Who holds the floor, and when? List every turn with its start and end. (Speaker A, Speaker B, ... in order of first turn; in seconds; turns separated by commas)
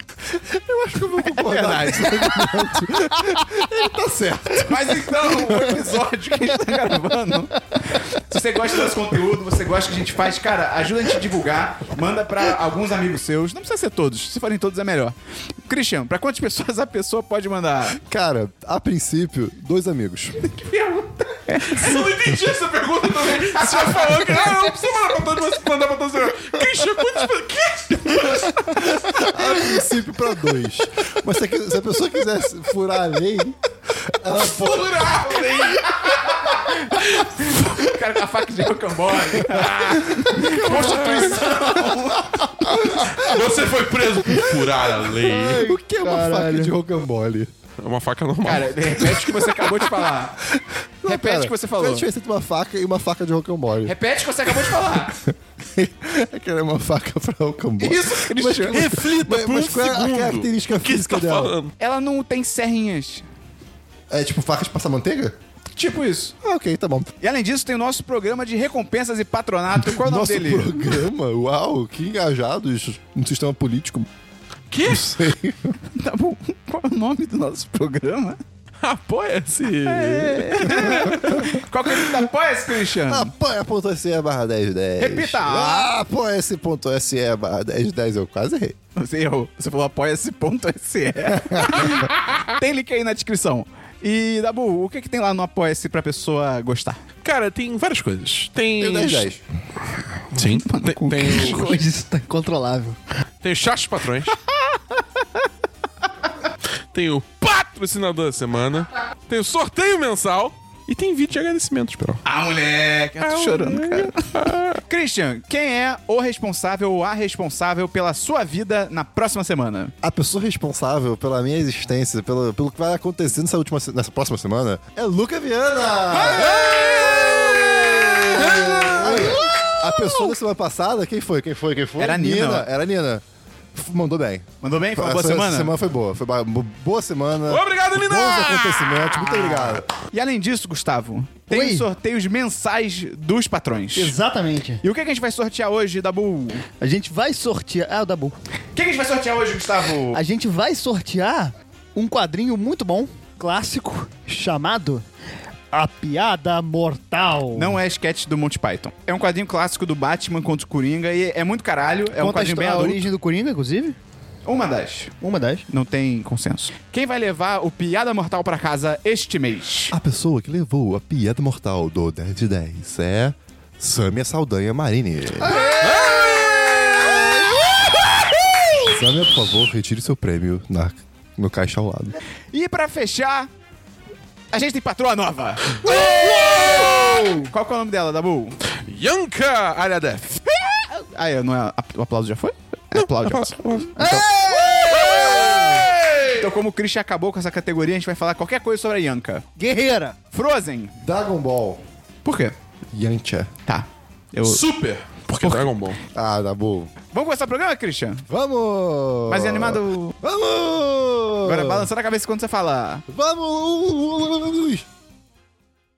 Speaker A: 0.3-5.4, Speaker B: 1.3-2.3, Speaker C: 2.4-3.6, Speaker B: 4.6-18.0, Speaker C: 5.4-5.8, Speaker A: 17.9-20.5, Speaker B: 20.5-22.0, Speaker D: 21.6-29.5, Speaker A: 28.8-33.6, Speaker A: 34.1-35.6, Speaker D: 34.3-37.7, Speaker B: 36.5-42.4, Speaker D: 39.5-41.6, Speaker A: 40.1-43.2, Speaker C: 40.7-41.4, Speaker D: 42.8-45.7, Speaker C: 45.2-46.7, Speaker A: 45.2-47.5, Speaker D: 47.8-49.2, Speaker B: 48.4-50.4, Speaker A: 51.0-53.9, Speaker B: 51.0-52.1, Speaker B: 53.8-55.1, Speaker A: 54.5-61.5, Speaker B: 57.8-58.9, Speaker D: 58.6-61.7, Speaker B: 61.8-63.2, Speaker A: 64.1-65.3, Speaker B: 65.8-66.3, Speaker A: 66.4-67.1, Speaker B: 67.2-70.8, Speaker A: 69.8-74.1, Speaker D: 74.7-75.2, Speaker A: 74.9-75.7, Speaker B: 75.9-78.4, Speaker D: 78.8-81.6, Speaker B: 79.8-83.3, Speaker A: 80.1-81.6, Speaker A: 83.0-88.8, Speaker B: 85.0-85.9, Speaker B: 88.9-97.0, Speaker A: 91.3-91.9, Speaker D: 97.2-99.3, Speaker A: 98.8-99.4, Speaker D: 100.3-101.8, Speaker B: 100.4-101.7, Speaker C: 101.2-103.0, Speaker D: 103.4-104.4, Speaker B: 104.5-105.0, Speaker D: 106.9-112.2, Speaker B: 112.2-119.9, Speaker D: 113.2-114.8, Speaker A: 120.0-133.2, Speaker B: 126.1-126.8, Speaker D: 126.2-130.0, Speaker B: 132.0-132.7, Speaker A: 133.7-139.9, Speaker B: 134.6-135.7, Speaker D: 137.5-139.8, Speaker B: 139.6-144.1, Speaker C: 141.5-141.9, Speaker C: 143.9-144.8, Speaker B: 144.8-146.6, Speaker C: 146.8-148.3, Speaker B: 148.7-150.2, Speaker C: 150.1-155.0, Speaker C: 155.7-157.8, Speaker B: 157.5-163.1, Speaker C: 162.1-164.0, Speaker B: 164.4-165.1, Speaker C: 165.2-165.6, Speaker B: 165.7-169.9, Speaker A: 169.9-175.7, Speaker C: 175.4-177.6, Speaker D: 175.8-176.9, Speaker A: 178.8-182.2, Speaker B: 182.5-183.5, Speaker B: 184.5-188.6, Speaker C: 185.8-187.5, Speaker D: 185.8-187.3, Speaker D: 188.8-190.4, Speaker B: 190.6-194.3, Speaker D: 192.9-196.5, Speaker C: 194.0-195.8, Speaker B: 196.4-199.4, Speaker C: 199.6-200.2, Speaker B: 200.3-200.9, Speaker A: 201.0-201.8, Speaker B: 202.2-202.6, Speaker A: 202.9-203.5, Speaker B: 203.7-204.6, Speaker D: 204.4-206.0, Speaker B: 205.4-205.7, Speaker A: 206.1-206.9, Speaker B: 207.1-208.2, Speaker A: 208.3-211.9, Speaker B: 209.3-210.2, Speaker B: 211.4-213.0, Speaker A: 213.1-214.8